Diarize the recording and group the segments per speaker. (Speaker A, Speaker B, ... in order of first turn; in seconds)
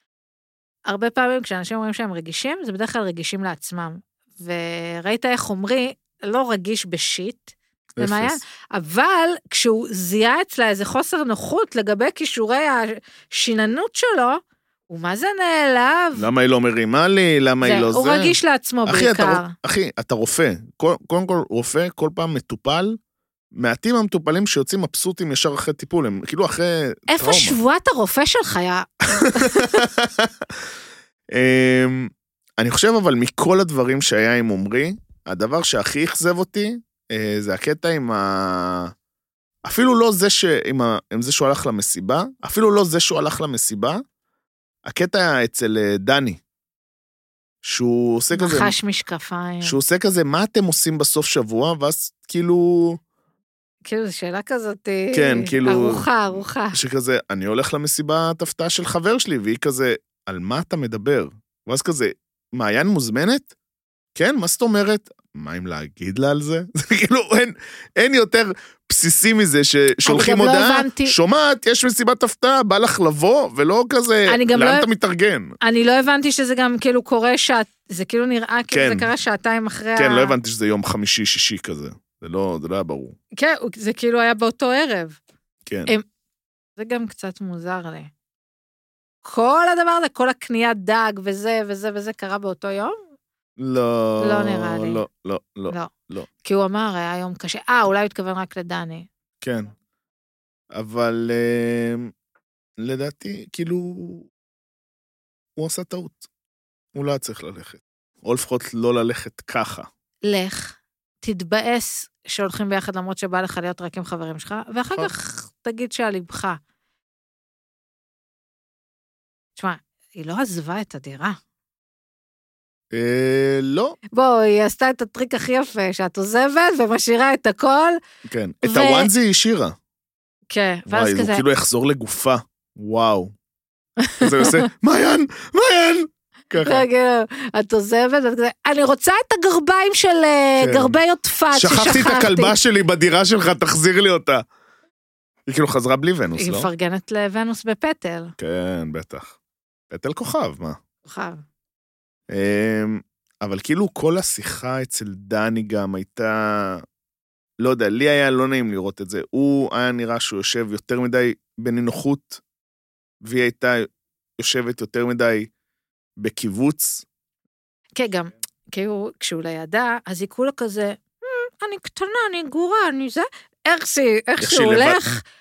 Speaker A: 0.9-16.3, 17.6-19.5, 27.1-29.8, 48.3-49.8, 53.9-56.8, 70.0-71.1, 74.3-74.9, 75.6-80.3, 83.4-85.2, 86.8-88.1, 89.2-93.0, 94.2-95.0, 96.4-99.1, 110.2-116.6, 119.6-121.4, 124.1-128.0, 128.6-129.1, 130.5-131.4, 134.0-134.6, 136.6-142.6, 146.4-148.3, 151.1-151.4, 167.9-175.2
Speaker B: 8.0-8.4, 16.1-23.0, 23.5-27.6, 29.2-30.5, 31.3-38.9, 39.6-44.0, 44.8-46.4, 47.6-48.7, 49.6-53.0, 55.1-63.5, 64.1-75.5, 78.7-79.1, 80.0-83.2, 85.7-85.9, 93.6-96.3, 99.4-99.7, 100.7-102.1, 102.8-104.3, 105.6-106.2, 106.9-109.9, 122.9-124.0, 128.2-129.8, 130.9-133.3, 134.2-136.8, 140.6-140.9, 141.5-144.4, 145.5-146.7, 148.4-149.3, 149.9-150.8, 152.3-156.8, 157.6-162.4, 163.2-165.5, 166.2-167.0, 174.4-175.2